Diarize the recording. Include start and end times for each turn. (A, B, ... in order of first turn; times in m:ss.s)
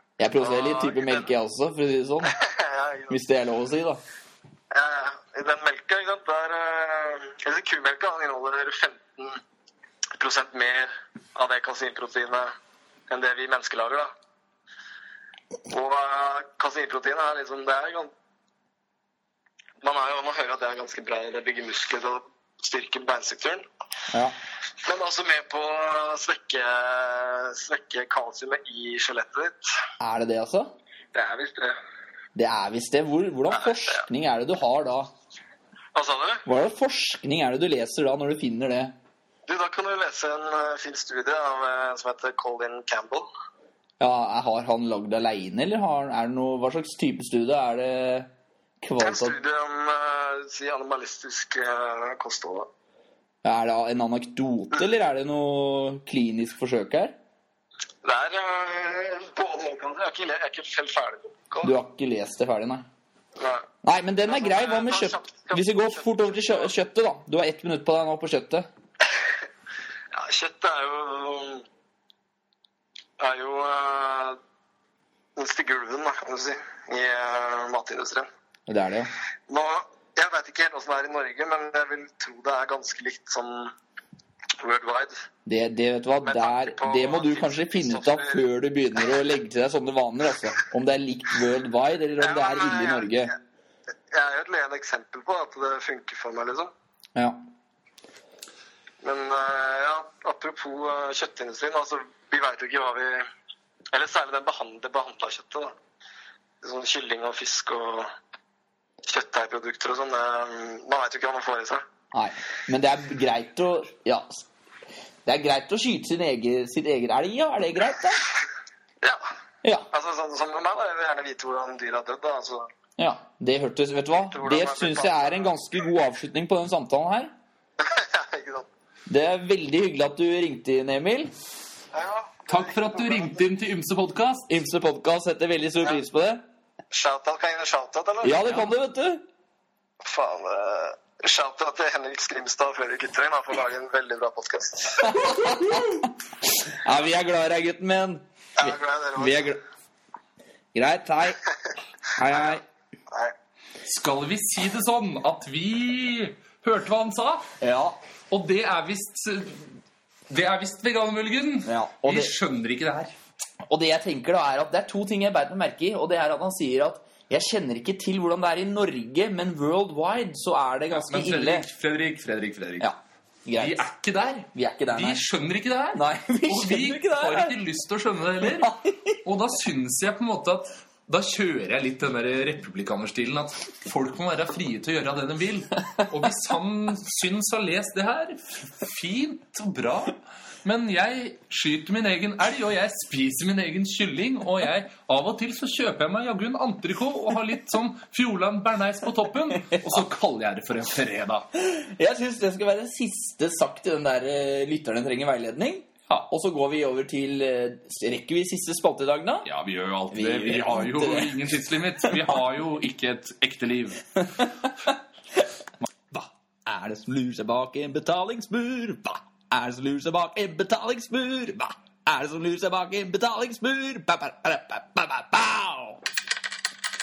0:00.2-0:02.3 A
0:00.4-0:01.3 B
0:02.2-0:03.2 B
0:03.1-0:04.0 A
0:04.7-0:09.4 B
0:10.2-0:12.5 B
0:13.1-0:14.1 B
0:15.7-0:18.1 B
0:19.8-0:23.6 B
0:24.8-0:29.7 B
0:30.0-0:30.7 A
0:31.1-0:31.8 B
0:32.4-0:35.1 A
0:33.5-0:34.0 B
0:36.0-0:36.4 B
0:36.5-0:38.9 A
0:39.5-0:43.3 B
0:44.0-0:48.3 A
0:48.8-0:49.4 A
0:49.0-0:52.7 B
0:53.4-0:57.1 A
0:58.0-1:01.7 B
1:01.6-1:02.9 A
1:03.4-1:03.7 B
1:03.8-1:08.7 A
1:04.2-1:06.7 B
1:10.1-1:11.6 B
1:13.2-1:14.4 B
1:15.4-1:18.3 B
1:18.7-1:19.1 A
1:19.5-1:23.7 B
1:24.6-1:25.2 B
1:25.5-1:33.3 A
1:26.2-1:28.4 B
1:32.2-1:33.2 B
1:34.1-1:36.7 B
1:39.0-1:43.3 B
1:43.9-1:45.8 B
1:46.6-1:48.1 B
1:49.0-1:51.8 B
1:52.1-1:54.5 A
1:55.2-1:58.3 A
1:59.6-1:59.9 A
1:59.9-2:02.7 B
2:03.0-2:07.3 A
2:04.1-2:05.6 B
2:07.8-2:08.7 B
2:09.1-2:11.3 A
2:11.9-2:13.3 B
2:12.5-2:14.5 C
2:14.5-2:16.4 A
2:16.9-2:18.6 B
2:18.2-2:19.2 A
2:20.0-2:25.4 B
2:25.0-2:26.1 A
2:26.7-2:29.6 A
2:28.6-2:29.6 B
2:30.8-2:31.4 A
2:32.1-2:32.6 A
2:33.8-2:37.5 C
2:37.6-2:38.0 A
2:38.3-2:39.7 C
2:40.3-2:43.1 C
2:41.7-2:42.3 A
2:43.7-2:51.7 A
2:50.9-2:52.9 C
2:52.8-2:53.8 A
2:53.6-3:21.5 C
2:54.5-2:55.2 A
2:55.9-2:57.6 A
2:58.6-2:59.2 A
3:19.7-3:20.0 A
3:21.5-3:29.5 A
3:29.4-3:34.0 C
3:30.1-3:31.4 A
3:34.4-3:35.4 A
3:36.1-3:46.0 A